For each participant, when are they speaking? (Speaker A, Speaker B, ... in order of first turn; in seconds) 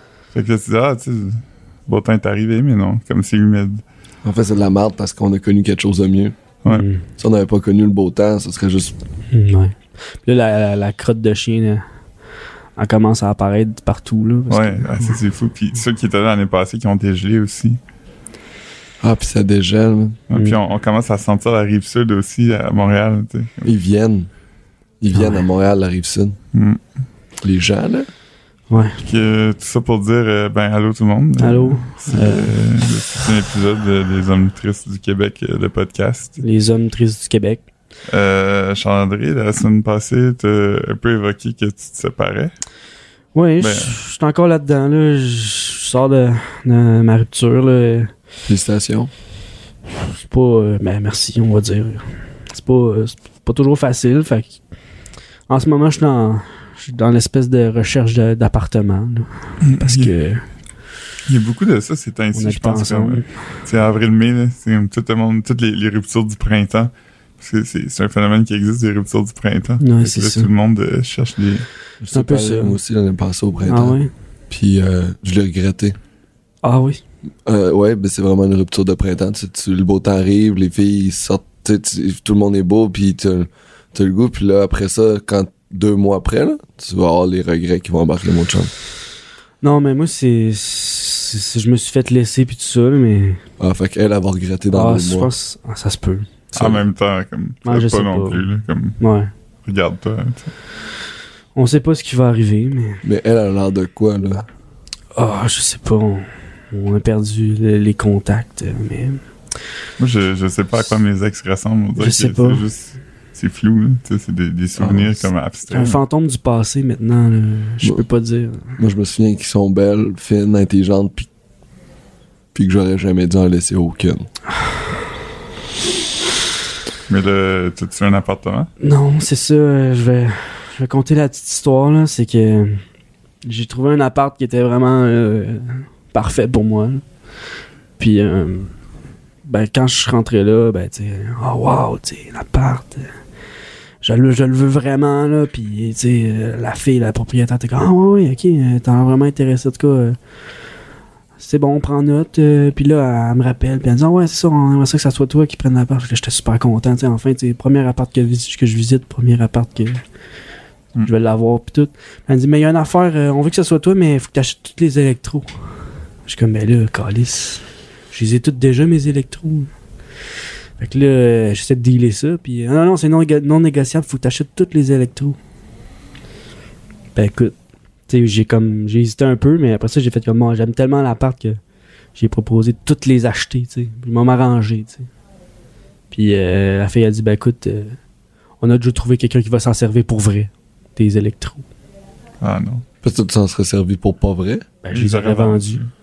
Speaker A: 0.3-3.8, 14.5-17.8, 20.3-23.7, 26.5-26.8, 28.8-36.4, 38.1-42.5, 43.6-44.0, 59.6-60.1, 61.3-71.7, 96.5-99.0, 99.7-100.5, 110.0-116.0, 127.1-128.7, 192.4-192.8, 194.9-195.9
Speaker B: 4.2-6.4, 7.2-9.0, 19.0-20.2, 23.6-24.3, 25.0-26.4, 27.4-28.1, 48.5-49.1, 72.0-74.0, 74.5-76.0, 77.5-88.7, 93.6-95.3, 96.5-96.8, 103.0-104.5, 114.8-115.2, 118.8-121.3, 122.5-124.3, 193.0-194.7
Speaker C: 6.7-7.1, 9.3-11.8, 12.8-15.2, 20.3-20.6, 25.1-25.4, 28.7-29.0, 31.4-32.5, 36.4-37.6, 43.3-48.1, 50.1-54.6, 55.5-60.5, 62.3-63.2, 69.8-70.5, 72.1-72.8, 73.7-74.1, 76.6-77.0, 89.6-93.4, 94.7-96.3, 97.7-98.5, 99.0-99.3, 101.5-103.0, 105.2-109.2, 112.0-112.7, 115.7-118.8, 128.8-132.8, 133.4-137.0, 138.0-138.7, 139.4-143.1, 144.0-150.2, 151.4-160.0, 161.0-165.5, 166.3-169.7, 170.8-175.4, 177.2-177.6, 178.1-181.6, 182.2-185.1, 186.1-188.0, 188.6-191.6, 194.8-195.8